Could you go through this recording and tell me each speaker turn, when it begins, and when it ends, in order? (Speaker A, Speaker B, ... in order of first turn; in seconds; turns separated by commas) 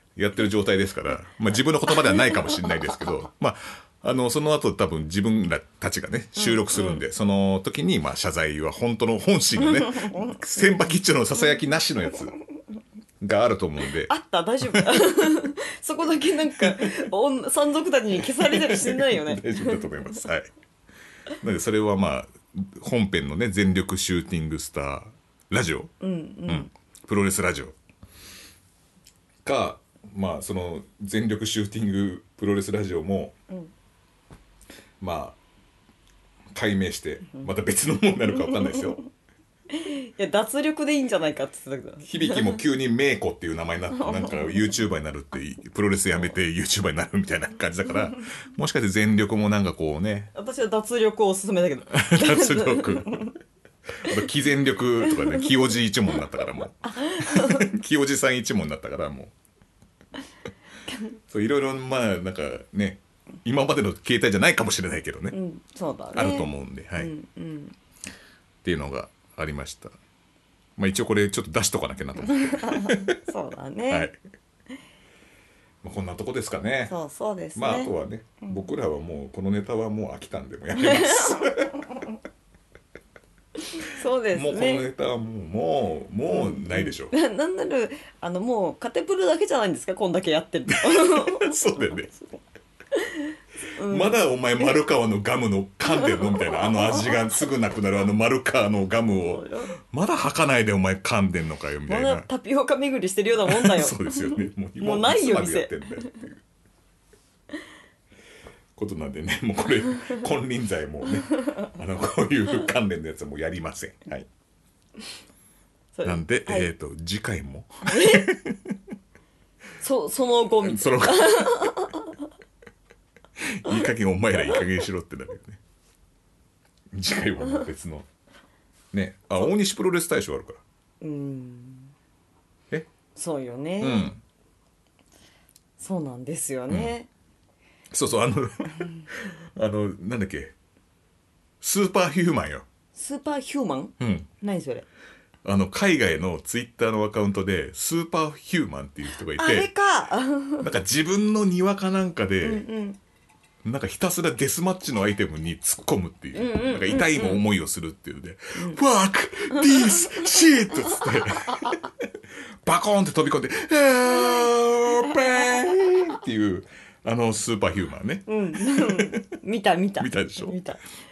Speaker A: 0.2-12.3, Speaker B: 6.4-7.0, Speaker B: 10.0-10.4, Speaker A: 13.2-14.1, Speaker B: 14.1-19.8, Speaker A: 14.7-15.0, Speaker A: 18.4-20.5, Speaker A: 21.4-25.9, Speaker B: 26.0-26.7, Speaker A: 26.5-27.8, Speaker A: 29.4-33.4, Speaker A: 35.0-35.4, Speaker A: 36.5-39.0, Speaker B: 39.7-42.5, Speaker A: 42.0-50.3, Speaker B: 44.0-44.6, Speaker B: 50.3-53.3, Speaker A: 51.9-53.3, Speaker A: 54.0-59.3, Speaker B: 55.1-55.4, Speaker B: 56.8-57.6, Speaker A: 61.3-65.4, Speaker B: 65.3-67.8, Speaker A: 66.1-67.1, Speaker A: 68.6-70.0, Speaker A: 70.8-73.1, Speaker B: 72.5-74.1, Speaker A: 73.9-74.2, Speaker A: 75.8-77.0, Speaker B: 76.9-77.9, Speaker A: 77.5-81.8, Speaker B: 80.8-81.5, Speaker B: 83.8-84.9, Speaker A: 84.3-87.1, Speaker B: 86.3-92.4, Speaker A: 90.9-92.1, Speaker B: 92.9-94.2, Speaker A: 93.9-102.3, Speaker B: 95.9-97.1, Speaker B: 99.2-99.7, Speaker B: 101.9-105.7, Speaker A: 103.5-106.4, Speaker A: 108.8-114.3, Speaker B: 116.0-116.7, Speaker A: 116.0-118.7, Speaker B: 117.9-118.3, Speaker B: 119.8-122.0, Speaker A: 120.6-121.8, Speaker A: 123.4-125.6, Speaker A: 126.9-128.1, Speaker A: 128.9-130.6, Speaker B: 131.0-131.9, Speaker B: 133.2-134.1, Speaker A: 133.8-134.2, Speaker B: 135.8-137.1, Speaker A: 136.7-136.9, Speaker A: 137.9-140.5, Speaker A: 141.6-142.7, Speaker B: 142.9-144.9, Speaker A: 144.0-144.3, Speaker A: 145.4-149.7, Speaker B: 149.4-150.7, Speaker A: 150.6-152.7, Speaker B: 152.4-153.0, Speaker A: 153.6-161.9, Speaker B: 156.3-157.4, Speaker B: 159.6-160.3, Speaker B: 161.2-161.7, Speaker A: 162.6-169.2, Speaker B: 168.3-170.8, Speaker A: 170.0-170.6